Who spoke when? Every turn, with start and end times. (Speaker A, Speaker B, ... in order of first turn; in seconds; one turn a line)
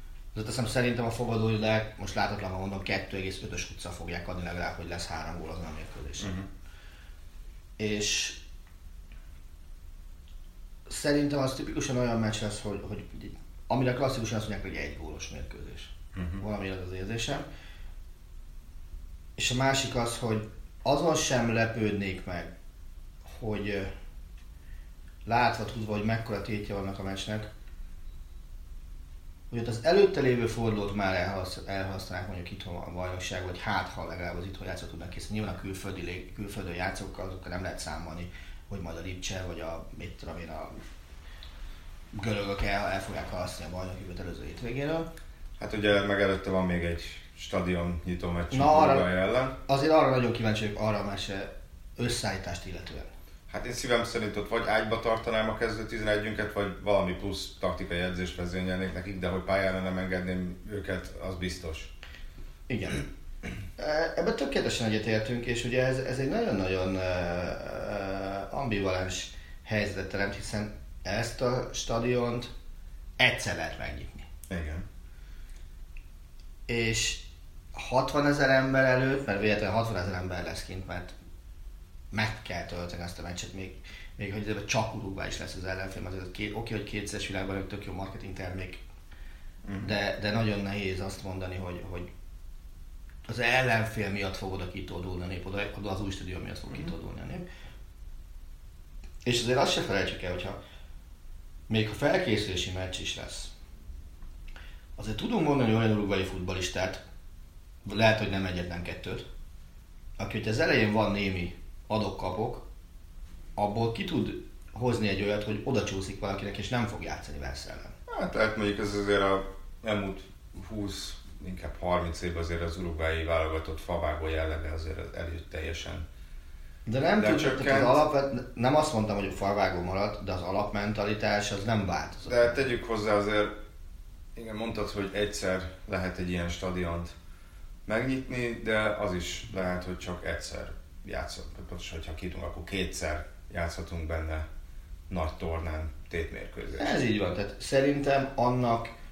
Speaker A: 0.3-6.4
Speaker B: 6.2-6.5
Speaker A: 7.8-8.4
Speaker A: 10.9-17.4
Speaker B: 16.1-16.4
Speaker A: 19.4-22.5
Speaker A: 23.2-23.9
Speaker A: 25.2-27.5
Speaker A: 29.5-40.8
Speaker A: 42.1-45.1
Speaker B: 45.6-49.5
Speaker A: 48.5-49.1
Speaker A: 49.6-53.1
Speaker B: 53.5-61.9
Speaker A: 62.7-63.1
Speaker A: 63.8-72.5
Speaker A: 73.2-74.3
Speaker B: 74.5-74.8
Speaker A: 76.7-81.1
Speaker A: 82.1-88.8
Speaker B: 89.6-89.9
Speaker A: 89.8-92.1
Speaker A: 93.2-97.4
Speaker A: 99.2-100.6
Speaker A: 101.7-103.5
Speaker A: 105.0-107.0
Speaker A: 107.8-109.2
Speaker A: 110.2-112.6
Speaker A: 113.5-117.9
Speaker B: 118.1-126.0
Speaker A: 126.8-132.6
Speaker B: 127.2-128.0
Speaker B: 132.2-133.6
Speaker B: 134.3-137.1
Speaker B: 137.8-144.4
Speaker B: 145.1-147.0
Speaker A: 146.8-148.9